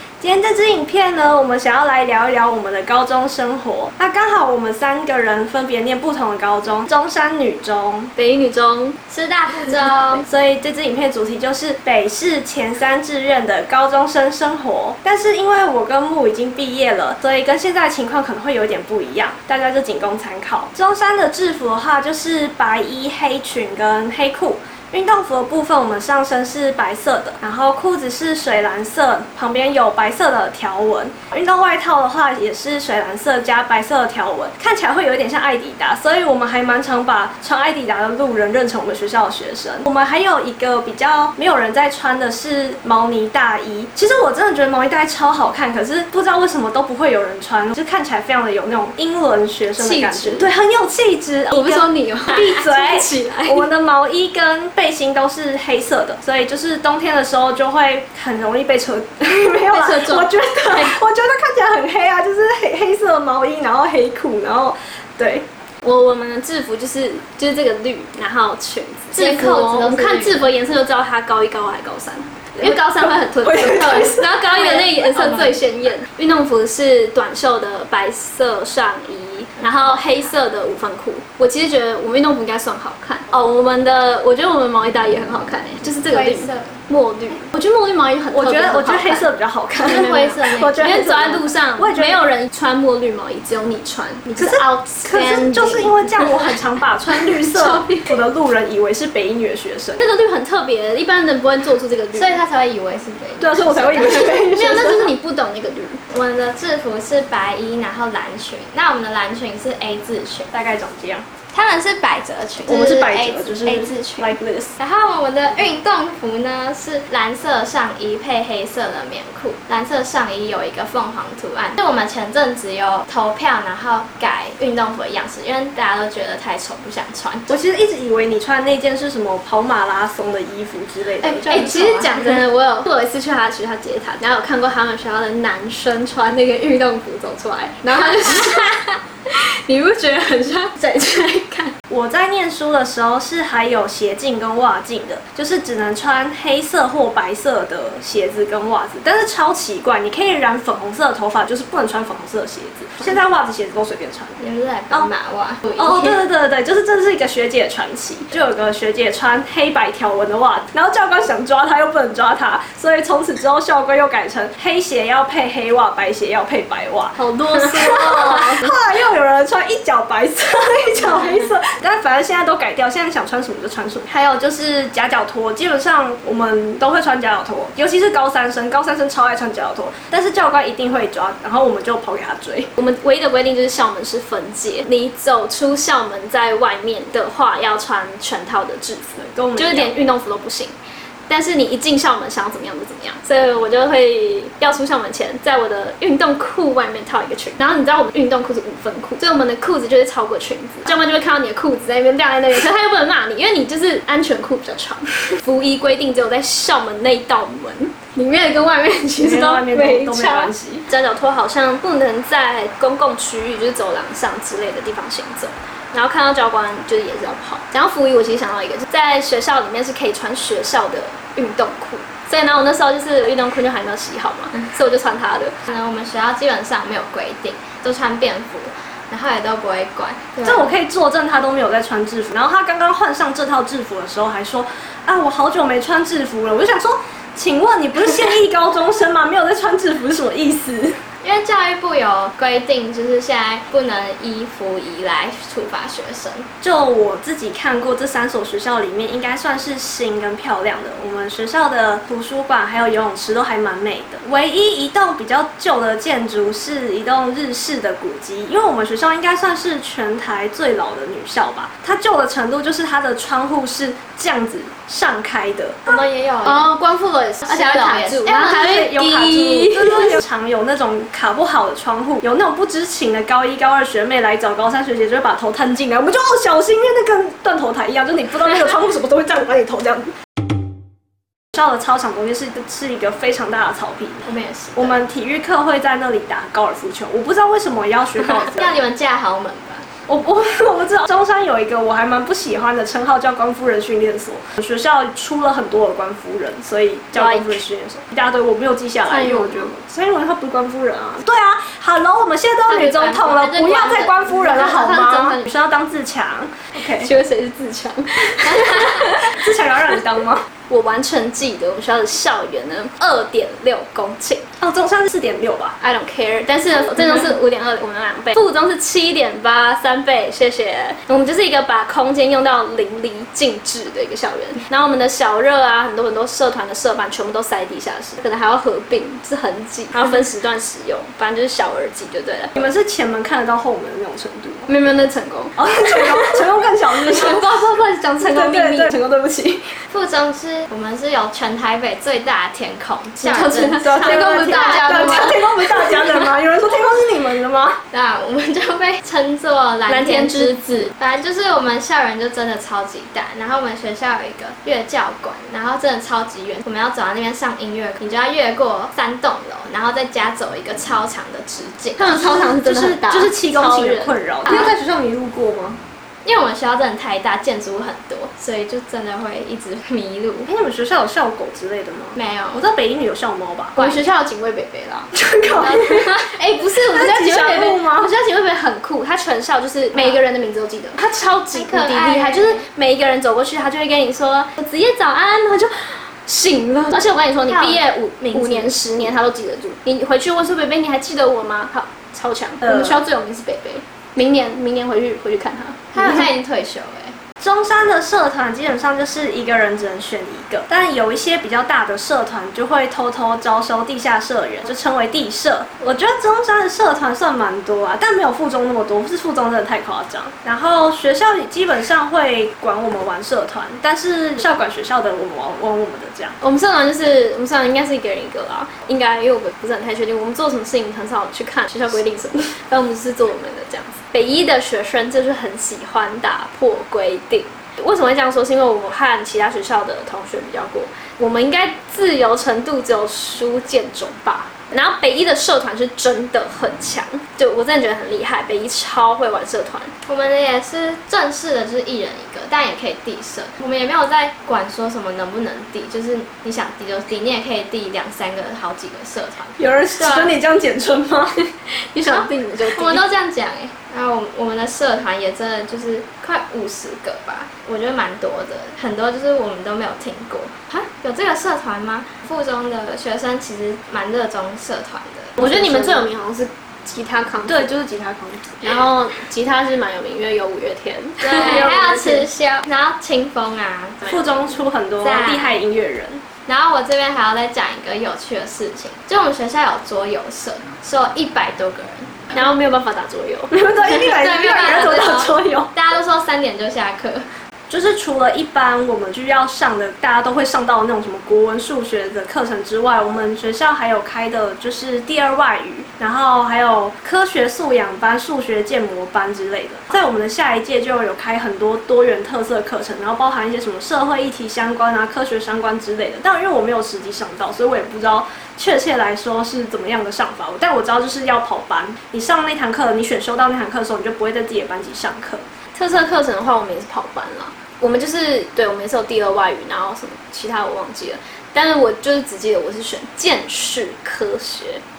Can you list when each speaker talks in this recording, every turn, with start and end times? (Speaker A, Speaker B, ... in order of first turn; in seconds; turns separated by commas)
Speaker A: 0.2-8.1, Speaker B: 8.2-9.0, Speaker C: 9.1-10.3, Speaker A: 10.3-65.5, Speaker B: 49.8-50.5, Speaker B: 51.5-53.7, Speaker B: 59.7-61.0, Speaker B: 65.8-96.6, Speaker C: 69.2-70.5, Speaker A: 72.6-74.4, Speaker C: 74.5-75.6, Speaker C: 79.6-80.3, Speaker C: 86.1-86.8, Speaker A: 88.3-92.2, Speaker C: 89.8-91.4, Speaker A: 94.4-100.0, Speaker B: 97.1-98.2, Speaker B: 100.0-102.4, Speaker C: 102.2-104.5, Speaker A: 103.4-105.1, Speaker B: 104.3-106.0, Speaker C: 106.1-110.5, Speaker A: 110.5-111.3, Speaker C: 111.5-127.5, Speaker A: 112.7-114.8, Speaker A: 127.5-131.8, Speaker B: 131.2-138.8, Speaker C: 131.5-132.4, Speaker B: 139.3-141.7, Speaker A: 141.9-154.4, Speaker C: 154.4-155.8, Speaker A: 155.7-182.7, Speaker B: 167.2-168.7, Speaker B: 182.8-190.7, Speaker A: 189.3-190.0, Speaker B: 191.3-225.6, Speaker A: 209.2-210.9, Speaker C: 225.7-230.7, Speaker A: 230.4-241.0, Speaker C: 241.2-246.5, Speaker A: 246.6-265.8, Speaker C: 265.9-266.7, Speaker B: 266.4-270.2, Speaker C: 267.4-268.6, Speaker A: 268.6-280.1, Speaker A: 281.6-288.8, Speaker C: 284.3-285.0, Speaker C: 288.2-289.9, Speaker A: 290.1-307.1, Speaker B: 297.1-297.6, Speaker B: 299.1-299.7, Speaker C: 302.7-304.1, Speaker B: 304.2-305.4, Speaker B: 307.0-309.5, Speaker A: 308.6-310.4, Speaker B: 310.7-314.4, Speaker A: 314.6-315.8, Speaker B: 315.8-332.6, Speaker A: 332.6-334.7, Speaker B: 334.7-336.4, Speaker A: 335.6-337.6, Speaker B: 337.0-339.0, Speaker A: 338.2-339.6, Speaker C: 339.9-345.4, Speaker B: 343.2-346.1, Speaker A: 343.8-347.8, Speaker C: 347.9-362.2, Speaker B: 349.9-350.7, Speaker B: 362.0-364.1, Speaker A: 362.1-365.8, Speaker C: 364.5-364.7, Speaker C: 366.2-370.5, Speaker A: 370.5-373.8, Speaker C: 372.2-372.6, Speaker C: 373.8-374.0, Speaker B: 373.8-375.1, Speaker A: 375.1-376.1, Speaker C: 375.5-376.4, Speaker B: 376.2-396.0, Speaker A: 376.9-378.1, Speaker C: 379.9-380.2, Speaker C: 381.5-382.6, Speaker C: 387.5-388.7, Speaker C: 395.9-397.2, Speaker A: 397.4-416.4, Speaker B: 416.4-439.9, Speaker C: 440.1-450.3, Speaker A: 449.6-451.4, Speaker B: 451.9-453.0, Speaker C: 452.0-466.1, Speaker B: 465.4-467.6, Speaker A: 467.5-468.6, Speaker B: 468.6-472.3, Speaker C: 471.2-474.2, Speaker A: 471.4-471.9, Speaker A: 474.1-476.2, Speaker C: 475.0-475.6, Speaker C: 476.5-482.2, Speaker B: 482.3-483.5, Speaker A: 483.5-485.7, Speaker C: 483.8-487.3, Speaker A: 487.7-515.4, Speaker B: 515.8-524.8